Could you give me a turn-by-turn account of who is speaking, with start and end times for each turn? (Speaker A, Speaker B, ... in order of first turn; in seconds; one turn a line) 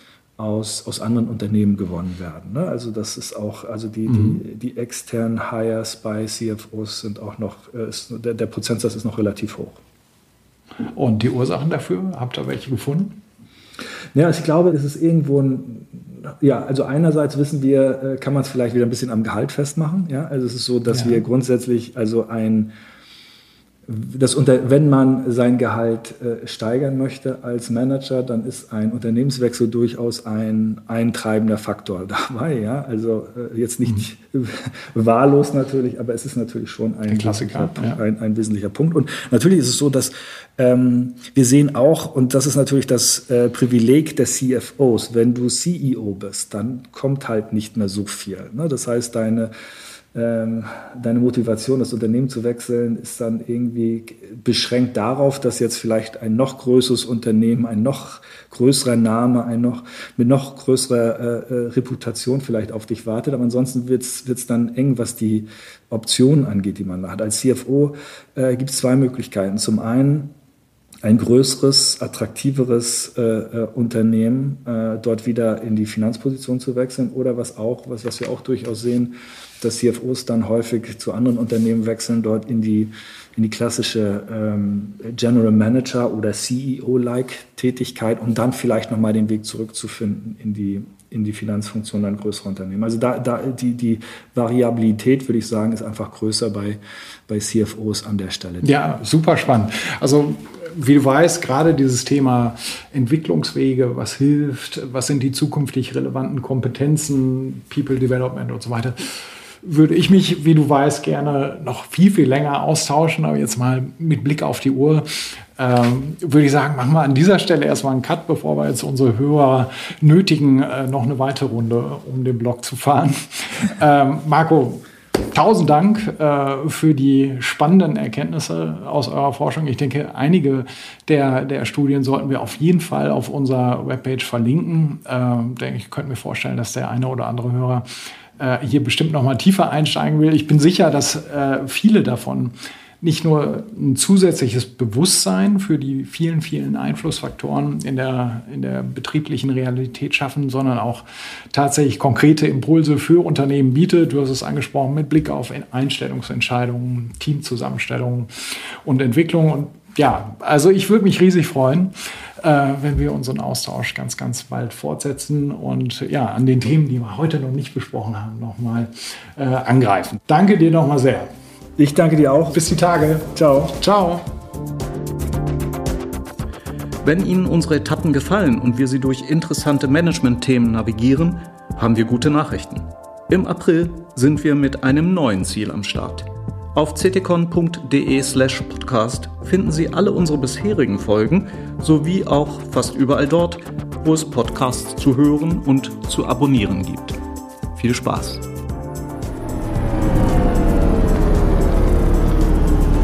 Speaker A: 0.4-9.8
Speaker B: 4.1-4.4
Speaker B: 10.9-13.2
Speaker A: 14.1-22.7
Speaker B: 20.9-21.2
Speaker A: 23.9-49.5
Speaker B: 37.1-38.0
Speaker A: 50.1-70.3
Speaker A: 71.0-98.7
Speaker B: 98.6-171.3
Speaker A: 171.8-172.7
Speaker B: 172.5-174.3
Speaker A: 173.3-173.8
Speaker C: 177.0-197.2
Speaker C: 197.8-198.4